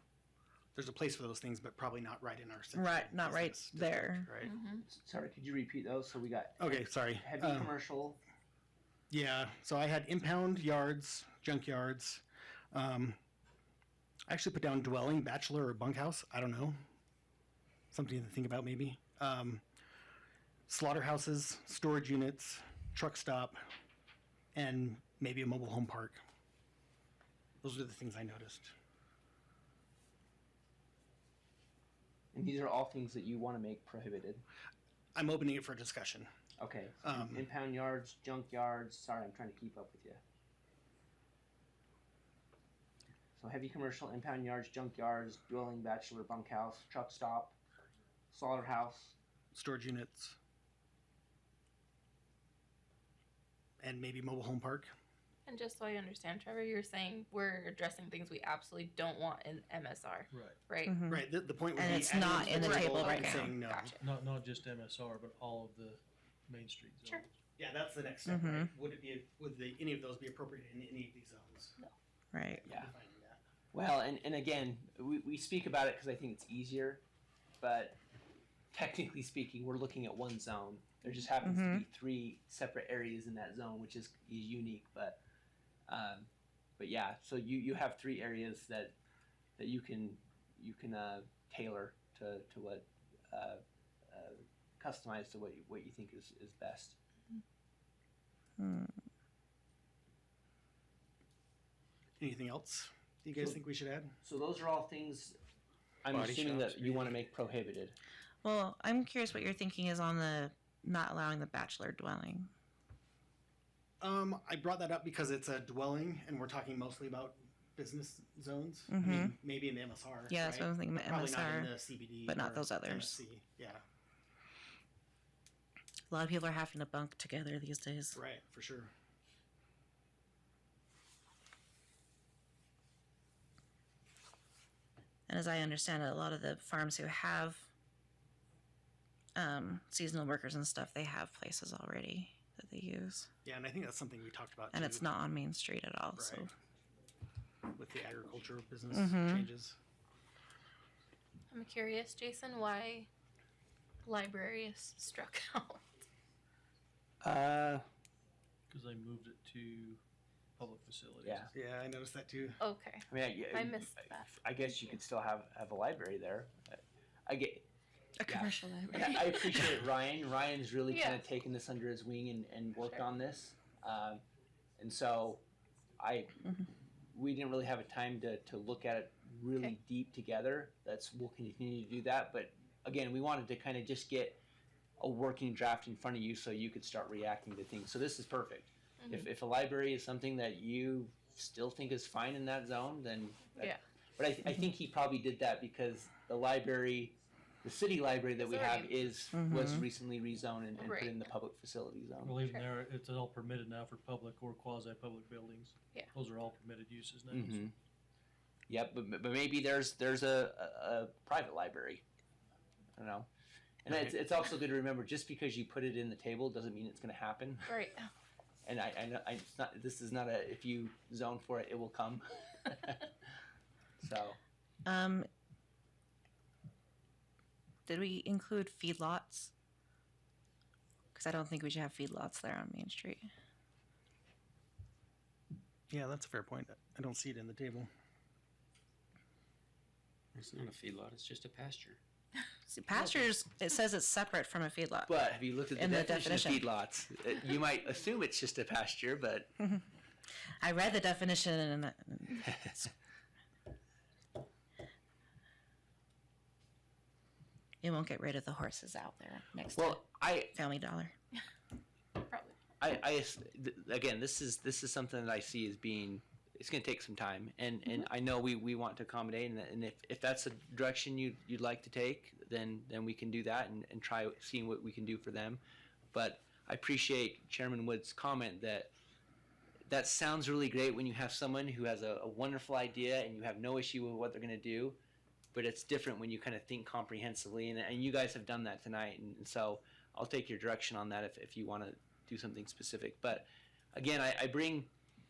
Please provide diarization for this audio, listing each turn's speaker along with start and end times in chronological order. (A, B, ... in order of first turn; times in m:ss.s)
0:00.8-0:04.5 A
0:02.7-0:04.3 B
0:04.4-0:04.8 C
0:04.8-0:08.2 D
0:06.6-0:07.7 A
0:09.1-0:13.2 A
0:14.3-0:16.8 A
0:17.9-0:19.6 A
0:20.7-0:23.6 A
0:24.5-0:26.2 A
0:27.6-0:28.7 A
0:32.3-0:34.4 D
0:35.2-0:36.3 A
0:36.6-0:40.2 D
0:37.0-0:37.5 A
0:43.4-0:47.6 D
0:48.3-0:49.2 D
0:49.5-0:50.4 A
0:53.8-0:54.9 A
0:55.5-1:01.0 C
1:00.3-1:00.6 E
1:00.8-1:03.6 B
1:01.1-1:03.9 A
1:01.9-1:04.0 C
1:04.0-1:07.3 E
1:07.6-1:11.8 A
1:08.3-1:08.7 B
1:12.3-1:12.6 B
1:12.5-1:13.4 A
1:12.6-1:12.9 D
1:13.7-1:17.0 D
1:17.6-1:18.0 D
1:18.7-1:25.2 D
1:21.4-1:21.8 B
1:25.9-1:29.0 D
1:29.6-1:37.0 D
1:38.6-1:39.0 B
1:42.2-1:44.2 A
1:44.2-1:45.4 D
1:46.0-1:48.0 D
1:46.1-1:47.1 F
1:48.4-1:52.5 B
1:54.0-2:03.8 A
1:58.9-1:59.4 B
2:00.3-2:01.7 B
2:02.3-2:03.2 B
2:06.1-2:08.2 B
2:08.2-2:08.9 A
2:15.3-2:17.7 B
2:19.4-2:23.3 B
2:23.4-2:25.1 A
2:24.7-2:26.5 B
2:26.2-2:26.5 A
2:27.7-2:29.8 A
2:28.9-2:29.5 B
2:31.5-2:33.1 C
2:34.0-2:35.8 C
2:37.2-2:37.8 D
2:38.7-2:40.0 E
2:40.6-2:41.6 E
2:41.2-2:41.5 D
2:41.5-2:42.6 A
2:42.6-2:45.0 C
2:43.1-2:47.7 D
2:48.2-2:49.5 B
2:48.3-2:54.2 D
2:50.9-2:51.2 C
2:54.8-2:55.4 D
2:56.0-2:56.5 D
2:57.1-3:04.4 D
3:05.0-3:22.4 D
3:09.0-3:09.3 C
3:18.4-3:19.0 C
3:19.3-3:19.9 B
3:20.8-3:21.2 C
3:22.2-3:27.7 E
3:27.3-3:27.8 D
3:28.7-3:32.0 D
3:33.0-3:33.3 D
3:33.8-3:37.8 D
3:37.7-3:38.1 C
3:38.6-3:43.1 D
3:44.0-3:44.4 D
3:44.8-3:45.3 B
3:47.9-3:49.5 B
3:51.2-3:53.3 B
3:55.9-3:57.9 A
4:00.4-4:02.0 F
4:02.7-4:05.2 B
4:05.1-4:09.5 D
4:05.8-4:06.7 B
4:10.6-4:12.9 B
4:17.8-4:21.1 B
4:19.8-4:20.6 D
4:22.2-4:22.6 C
4:22.8-4:35.6 D
4:36.1-4:38.9 D
4:39.9-4:45.0 D
4:45.5-4:54.9 D